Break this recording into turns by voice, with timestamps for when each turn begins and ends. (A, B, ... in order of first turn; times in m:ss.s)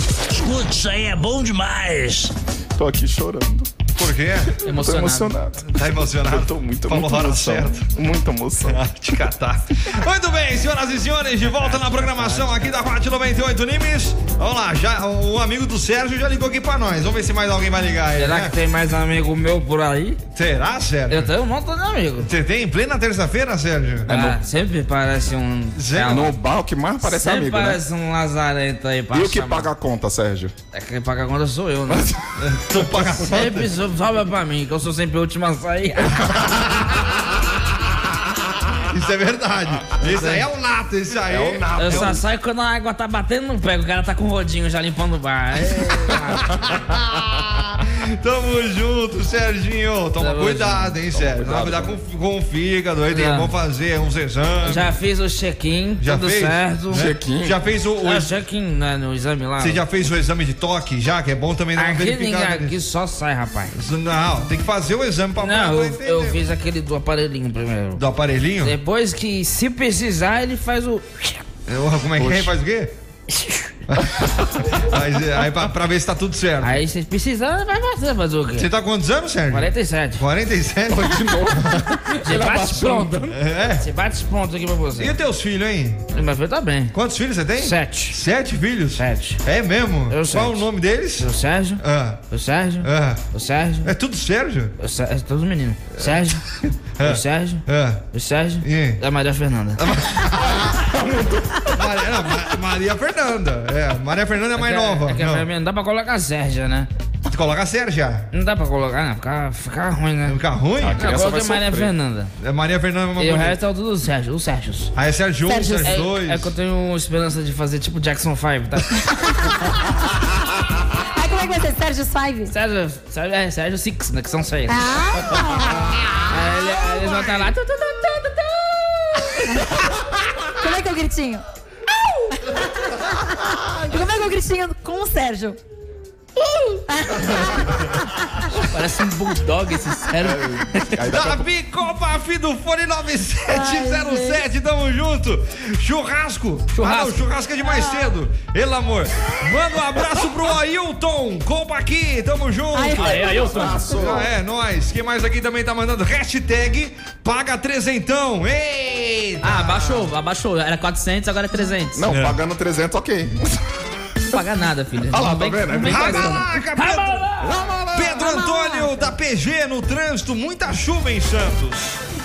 0:00.3-0:02.3 A
0:02.8-0:03.8 B
0:04.0-0:04.6 C
0:04.6-0:05.4 D
0:04.6-0:08.8 B
0:05.6-0:07.9 C
0:08.6-0:18.5 C
0:11.4-0:12.7 D
0:18.2-0:20.2 D
0:20.3-0:21.3 C
0:21.1-0:22.3 D
0:22.2-0:24.2 C
0:24.1-0:26.4 D
0:25.8-0:26.3 C
0:26.0-0:27.8 B
0:27.0-0:29.7 D
0:29.1-0:30.5 B
0:30.7-0:32.1 D
0:31.9-0:33.1 B
0:32.4-0:33.7 C
0:33.3-0:36.3 D
0:38.9-0:42.2 C
0:40.0-0:40.4 D
0:41.3-0:42.2 B
0:41.8-0:46.4 D
0:46.7-0:54.9 C
0:50.2-0:51.0 D
0:51.1-0:51.9 B
0:53.1-0:53.5 D
0:54.6-0:57.1 D
0:56.0-0:58.3 C
0:56.9-0:57.6 B
0:58.0-0:59.8 D
0:59.6-1:02.7 C
1:01.8-1:03.7 D
1:03.7-1:06.4 C
1:05.4-1:08.0 D
1:08.0-1:08.7 C
1:08.6-1:11.4 D
1:11.7-1:12.9 C
1:12.2-1:12.5 B
1:13.3-1:13.6 D
1:13.9-1:16.8 C
1:16.6-1:18.7 D
1:18.5-1:21.8 C
1:19.5-1:20.2 D
1:20.9-1:23.4 B
1:22.2-1:23.2 D
1:23.3-1:23.8 C
1:23.8-1:25.1 D
1:25.0-1:26.0 C
1:26.1-1:26.9 D
1:26.9-1:32.2 C
1:27.6-1:28.2 D
1:29.0-1:29.4 D
1:30.1-1:30.6 D
1:31.2-1:33.9 D
1:32.8-1:33.2 C
1:33.8-1:34.7 C
1:34.8-1:36.4 D
1:37.0-1:38.0 C
1:37.0-1:39.8 D
1:38.6-1:39.0 C
1:39.8-1:40.8 C
1:40.4-1:42.0 B
1:41.7-1:45.4 C
1:44.6-1:46.9 D
1:47.3-1:48.3 C
1:48.3-1:50.4 D
1:50.2-1:51.0 C
1:50.8-1:51.9 B
1:51.0-1:52.3 D
1:52.4-1:53.6 C
1:53.2-1:54.9 D
1:54.9-1:56.5 C
1:55.4-1:55.9 E
1:55.8-1:59.2 D
1:59.3-1:59.9 E
2:01.1-2:02.5 E
2:02.5-2:04.9 D
2:04.7-2:06.0 E
2:06.3-2:09.4 D
2:07.0-2:07.4 C
2:09.4-2:09.8 E
2:10.5-2:11.4 E
2:12.3-2:15.6 E
2:16.4-2:16.8 D
2:16.9-2:18.4 E
2:18.5-2:21.0 D
2:20.2-2:21.5 B
2:21.1-2:39.9 C
2:23.5-2:24.4 E
2:26.7-2:27.2 D
2:27.6-2:28.1 E
2:32.7-2:34.1 E
2:32.9-2:33.8 D
2:33.3-2:34.3 B
2:39.4-2:42.0 D
2:41.9-2:43.6 B
2:42.1-2:42.4 C
2:44.3-2:47.6 D
2:45.1-2:46.5 B
2:45.8-2:47.2 C
2:47.4-2:48.3 B
2:47.9-2:52.0 C
2:48.2-2:49.1 E